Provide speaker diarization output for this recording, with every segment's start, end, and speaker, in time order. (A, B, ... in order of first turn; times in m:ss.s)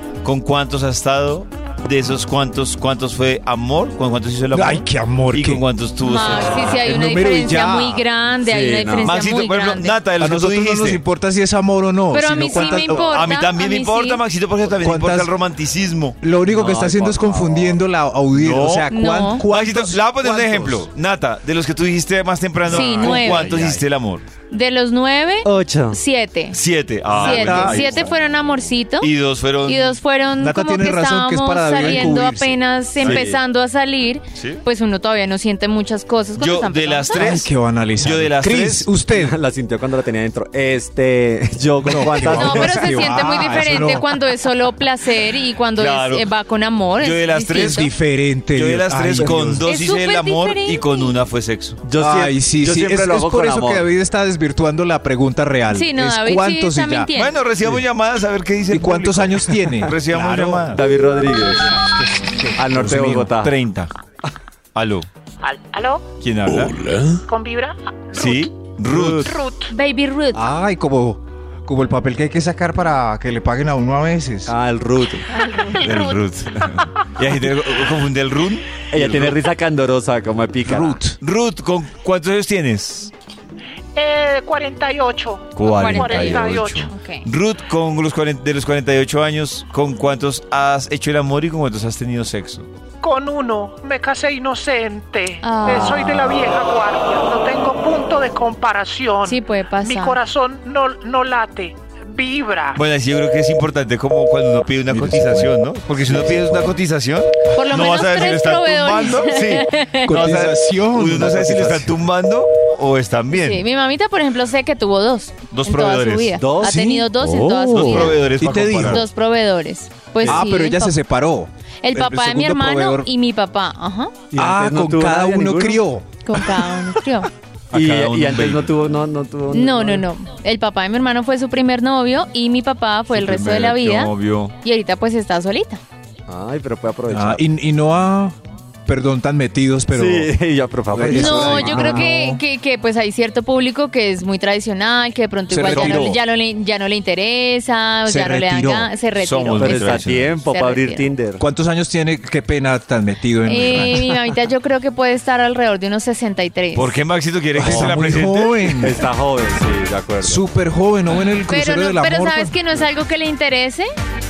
0:00.2-0:06.9 A
0:04.5-0:05.6 B
0:06.0-0:10.0 C
0:06.7-0:08.0 B
0:08.4-0:09.1 D
0:09.0-0:11.0 A
0:10.1-0:13.3 B
0:12.1-0:14.2 C
0:12.6-0:16.2 A
0:14.7-0:15.4 B
0:16.2-0:20.9 B
0:16.5-0:17.8 D
0:18.3-0:18.9 A
0:18.9-0:19.4 C
0:19.5-0:24.2 A
0:22.6-0:23.8 B
0:22.7-0:23.5 C
0:24.5-0:26.6 C
0:25.4-0:26.0 D
0:26.5-0:28.1 A
0:27.1-0:28.1 B
0:27.1-0:29.1 C
0:29.0-0:30.0 A
0:29.6-0:37.4 C
0:30.4-0:33.2 B
0:33.0-0:33.3 A
0:33.0-0:33.4 D
0:34.4-0:34.6 A
0:36.4-0:38.9 A
0:37.1-0:39.4 B
0:39.1-0:43.0 D
0:41.8-0:44.2 B
0:42.3-0:47.9 C
0:45.8-0:46.3 A
0:47.0-0:47.9 A
0:47.6-0:49.7 B
0:48.5-0:51.9 A
0:49.6-0:51.2 C
0:51.8-0:53.8 D
0:51.9-0:57.8 B
0:55.7-0:57.4 C
0:57.2-1:00.8 A
0:58.7-1:03.4 B
1:00.7-1:01.8 D
1:02.6-1:03.6 D
1:03.3-1:03.9 A
1:04.8-1:05.1 A
1:05.4-1:06.1 E
1:06.2-1:07.0 A
1:07.2-1:08.4 E
1:08.1-1:09.4 A
1:08.9-1:09.2 D
1:09.2-1:09.7 E
1:09.7-1:10.4 C
1:10.3-1:14.5 B
1:14.5-1:15.3 D
1:15.6-1:16.2 E
1:15.7-1:16.2 B
1:15.7-1:19.4 A
1:18.9-1:21.0 D
1:20.6-1:21.2 B
1:21.2-1:23.1 A
1:24.0-1:26.9 E
1:25.6-1:32.7 A
1:25.7-1:27.3 C
1:33.0-1:42.8 E
1:35.4-1:36.3 C
1:39.2-1:40.2 C
1:42.8-1:53.6 A
1:44.9-1:46.8 B
1:47.6-1:50.3 C
1:50.0-1:52.0 B
1:53.3-1:58.3 C
1:55.5-1:56.8 A
1:56.4-1:58.1 D
1:57.7-1:59.0 A
1:58.4-1:59.0 B
1:58.8-2:01.0 C
2:00.2-2:03.1 B
2:01.8-2:04.3 C
2:04.3-2:05.8 D
2:04.4-2:06.1 B
2:06.2-2:07.3 C
2:07.7-2:08.8 A
2:07.7-2:10.0 D
2:09.5-2:15.8 C
2:13.1-2:14.6 A
2:16.3-2:17.4 D
2:17.1-2:20.4 B
2:19.9-2:22.0 D
2:20.9-2:22.4 B
2:21.1-2:31.1 C
2:25.5-2:26.2 B
2:25.7-2:26.0 D
2:28.0-2:29.0 B
2:29.2-2:30.4 A
2:29.6-2:31.4 D
2:31.4-2:34.2 B
2:33.4-2:37.0 C
2:36.7-2:39.0 A
2:37.6-2:39.1 B
2:37.6-2:37.9 D
2:38.8-2:40.4 D
2:40.2-2:42.6 B
2:41.5-2:43.9 C